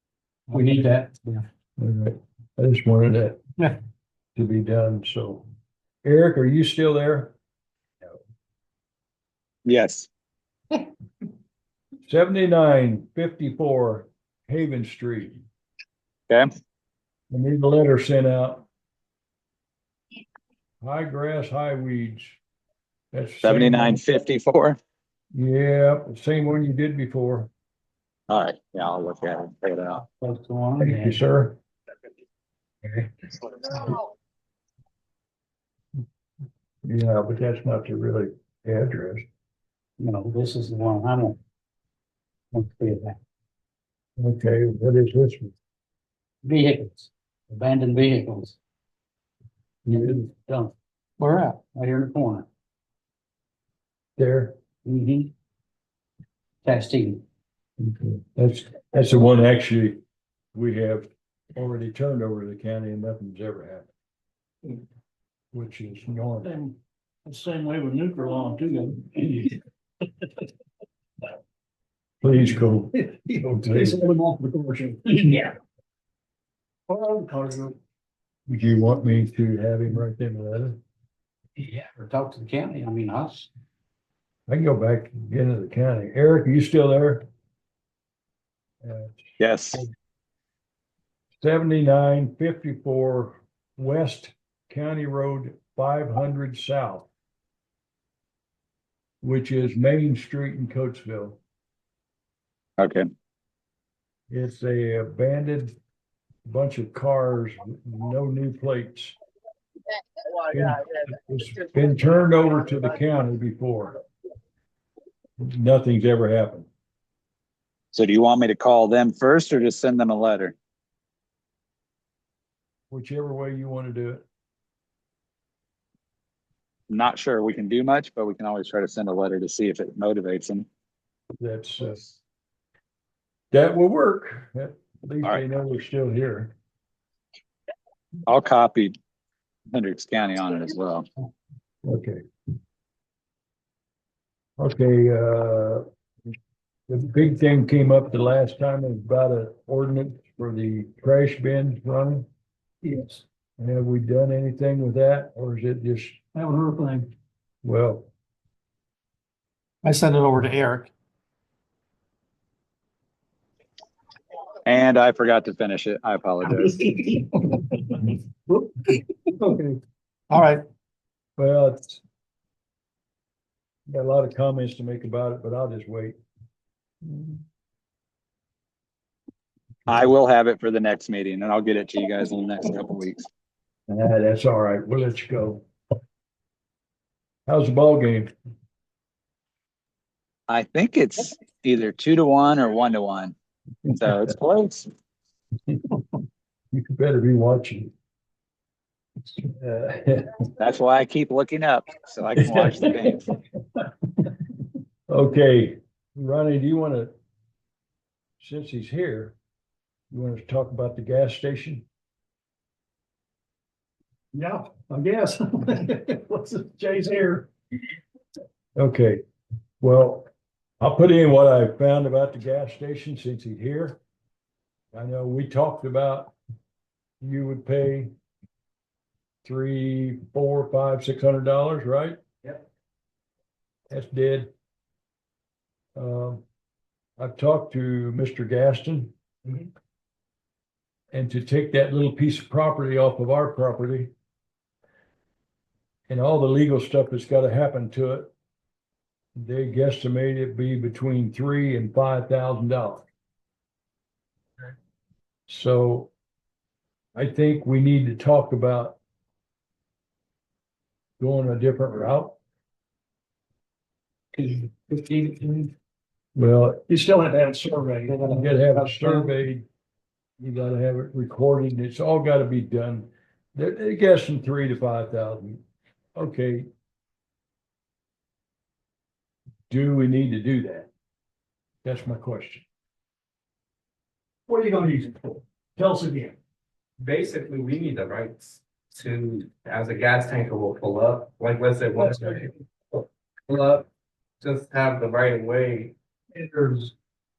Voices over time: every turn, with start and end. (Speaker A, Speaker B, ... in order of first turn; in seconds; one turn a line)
Speaker A: 1.8-3.4
Speaker A: 4.3-5.4
Speaker A: 6.0-7.3
Speaker B: 9.6-10.1
Speaker A: 12.1-15.4
Speaker A: 17.3-18.6
Speaker A: 20.8-22.4
Speaker A: 23.1-24.0
Speaker B: 23.4-24.8
Speaker A: 25.3-27.5
Speaker B: 28.3-30.0
Speaker C: 30.1-31.2
Speaker A: 30.8-31.6
Speaker A: 36.8-39.2
Speaker C: 40.0-41.4
Speaker C: 42.5-43.2
Speaker A: 44.2-45.5
Speaker C: 46.4-48.6
Speaker A: 49.9-50.2
Speaker C: 49.9-52.5
Speaker A: 54.2-54.5
Speaker C: 54.8-55.3
Speaker C: 56.6-57.2
Speaker A: 57.8-60.0
Speaker A: 60.5-63.9
Speaker A: 65.5-66.5
Speaker D: 66.4-69.6
Speaker A: 72.2-72.9
Speaker D: 73.0-75.5
Speaker A: 73.5-74.0
Speaker D: 76.9-77.8
Speaker A: 78.5-80.8
Speaker C: 81.6-83.5
Speaker A: 84.5-87.2
Speaker A: 88.8-89.2
Speaker B: 89.4-89.8
Speaker A: 91.4-97.1
Speaker A: 99.2-101.4
Speaker B: 102.8-103.0
Speaker A: 104.3-105.7
Speaker A: 106.4-109.2
Speaker A: 110.5-114.0
Speaker A: 115.4-116.7
Speaker B: 117.9-120.5
Speaker A: 122.9-124.2
Speaker B: 126.9-130.7
Speaker A: 131.4-132.1
Speaker A: 133.5-136.5
Speaker B: 138.3-138.9
Speaker B: 139.7-141.0
Speaker A: 141.8-142.2
Speaker A: 144.6-145.8
Speaker A: 146.9-152.2
Speaker D: 152.8-153.2
Speaker A: 153.6-156.2
Speaker D: 156.3-157.1
Speaker A: 157.6-158.1
Speaker D: 159.8-160.9
Speaker B: 164.7-166.9
Speaker D: 169.4-169.7
Speaker D: 170.3-170.6
Speaker A: 171.4-172.0
Speaker A: 173.9-176.2
Speaker B: 179.9-183.2
Speaker A: 183.9-185.6
Speaker A: 187.5-188.3
Speaker B: 190.5-193.3
Speaker B: 193.9-194.9
Speaker A: 196.7-197.9
Speaker A: 199.4-200.3
Speaker B: 200.6-203.2
Speaker A: 202.4-203.2
Speaker A: 205.1-207.1
Speaker A: 208.4-209.3
Speaker A: 210.1-211.8
Speaker D: 214.3-217.5
Speaker A: 218.8-219.2
Speaker A: 219.8-220.2
Speaker A: 220.8-224.0
Speaker A: 224.9-226.3
Speaker A: 227.2-228.1
Speaker A: 229.4-232.2
Speaker A: 233.9-234.5
Speaker A: 235.9-236.4
Speaker A: 237.2-239.1
Speaker A: 241.1-244.1
Speaker A: 246.1-248.3
Speaker A: 249.3-253.1
Speaker A: 255.5-256.1
Speaker A: 257.1-259.0
Speaker A: 261.2-262.4
Speaker E: 264.3-265.7
Speaker A: 266.4-266.8
Speaker D: 266.9-268.4
Speaker E: 268.1-269.3
Speaker A: 268.2-269.6
Speaker A: 270.4-275.6
Speaker A: 276.1-276.7
Speaker A: 279.7-280.9
Speaker A: 281.8-282.6
Speaker D: 284.5-286.3
Speaker E: 287.0-292.5
Speaker D: 292.0-292.5
Speaker E: 293.5-293.9
Speaker E: 294.4-295.9
Speaker D: 296.3-296.9